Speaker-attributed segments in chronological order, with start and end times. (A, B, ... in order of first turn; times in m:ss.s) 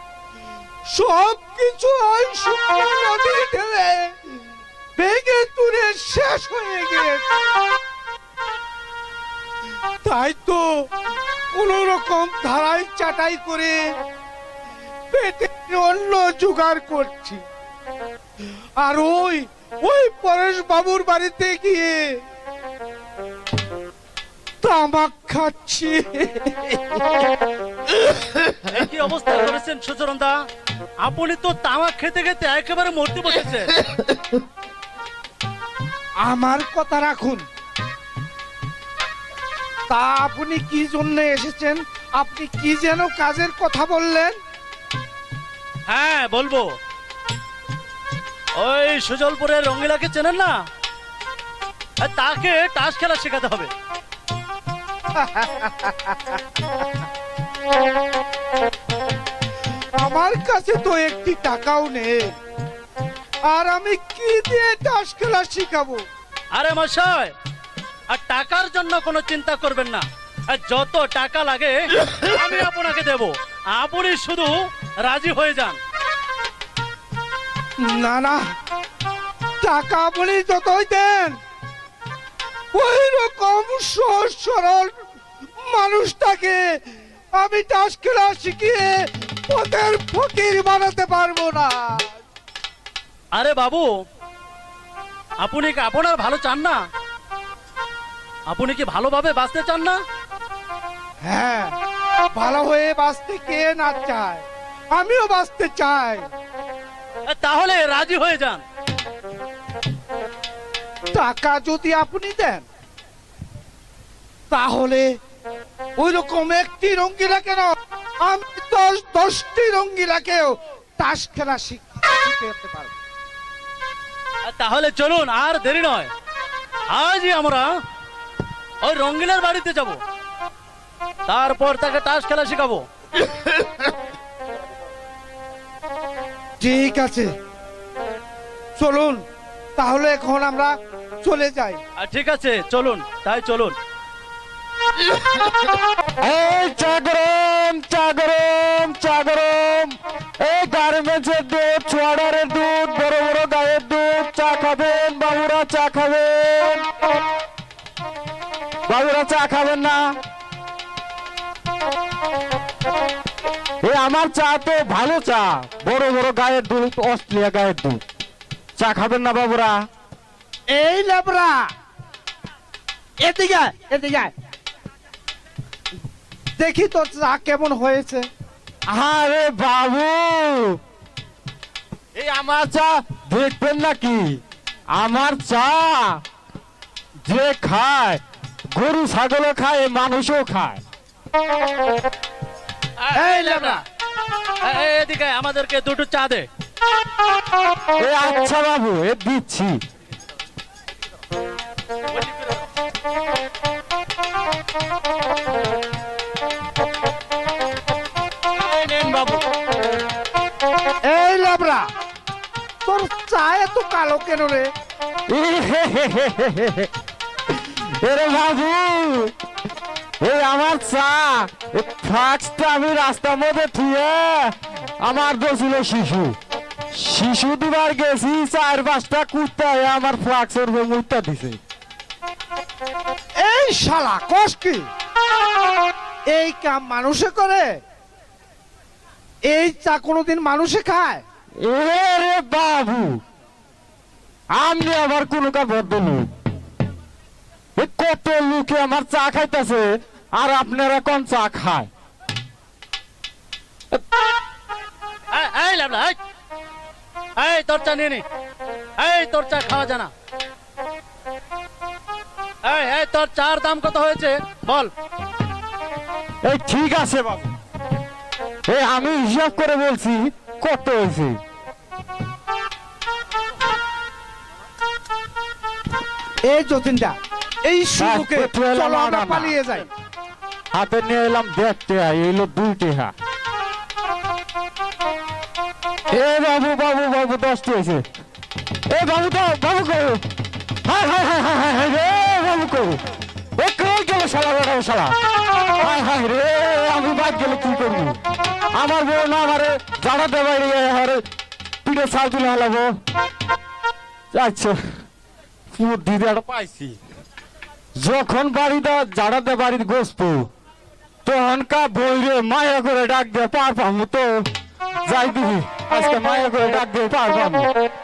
0:00.9-0:04.2 A
0:05.0-0:07.4 A
0:10.0-0:10.7 A
0:11.5-0:13.8 A
0:15.1-0:17.4 A
0:18.8-0:22.2 A
0:24.6-0:27.2 A
0:28.7-0:30.4 B
0:31.0-0:33.8 B
0:36.2-0:37.4 A
0:39.9-0:44.4 A
0:45.9-0:46.7 B
0:48.6-0:50.6 B
0:52.0-0:53.7 B
0:55.2-0:56.4 A
1:00.0-1:02.4 A
1:03.5-1:06.0 A
1:06.6-1:07.3 B
1:08.1-1:15.8 B
1:17.8-1:18.4 A
1:19.6-1:21.4 A
1:22.7-1:24.9 A
1:25.6-1:26.8 A
1:27.4-1:28.9 A
1:29.5-1:32.2 A
1:33.4-1:33.9 B
1:35.4-1:36.8 B
1:38.5-1:40.0 B
1:41.2-1:41.8 A
1:42.3-1:46.3 A
1:47.3-1:48.6 B
1:51.1-1:52.6 A
1:54.5-1:55.1 A
1:56.0-2:02.9 A
2:04.5-2:06.1 B
2:06.9-2:07.7 B
2:08.8-2:10.0 B
2:11.3-2:12.9 B
2:16.6-2:17.3 A
2:18.8-2:19.2 A
2:19.8-2:21.8 A
2:22.0-2:23.8 B
2:26.2-2:36.9 C
2:38.9-2:40.0 C
2:43.8-2:48.0 C
2:48.8-2:49.8 C
2:50.7-2:51.6 A
2:53.2-2:54.3 A
2:56.6-2:58.3 A
2:58.9-3:00.8 C
3:02.2-3:04.3 C
3:05.0-3:06.2 C
3:07.3-3:08.2 C
3:08.7-3:10.8 C
3:13.0-3:13.8 B
3:13.2-3:13.8 A
3:14.6-3:16.5 B
3:18.0-3:19.8 C
3:22.1-3:22.7 B
3:28.7-3:29.4 C
3:31.0-3:31.9 A
3:32.8-3:34.7 A
3:35.3-3:36.9 C
3:37.6-3:39.3 C
3:40.2-3:46.4 C
3:47.0-3:51.6 C
3:53.4-3:54.9 A
3:56.3-3:57.7 A
3:59.5-4:01.2 A
4:01.6-4:03.2 C
4:04.5-4:06.3 C
4:07.8-4:11.9 C
4:15.3-4:16.2 B
4:17.4-4:18.2 B
4:19.0-4:20.1 B
4:22.6-4:24.9 B
4:26.4-4:27.5 C
4:28.7-4:31.4 C
4:36.4-4:39.9 A
4:38.0-4:39.6 C
4:40.7-4:43.1 C
4:46.1-4:48.0 C
4:48.9-4:50.2 C
4:50.9-4:53.0 C
4:53.6-4:55.2 C
4:55.7-4:58.2 C
4:58.7-5:01.2 C
5:01.8-5:02.9 C
5:04.3-5:04.8 C
5:05.7-5:07.0 C
5:08.0-5:10.5 C
5:11.3-5:14.5 C
5:15.1-5:17.7 C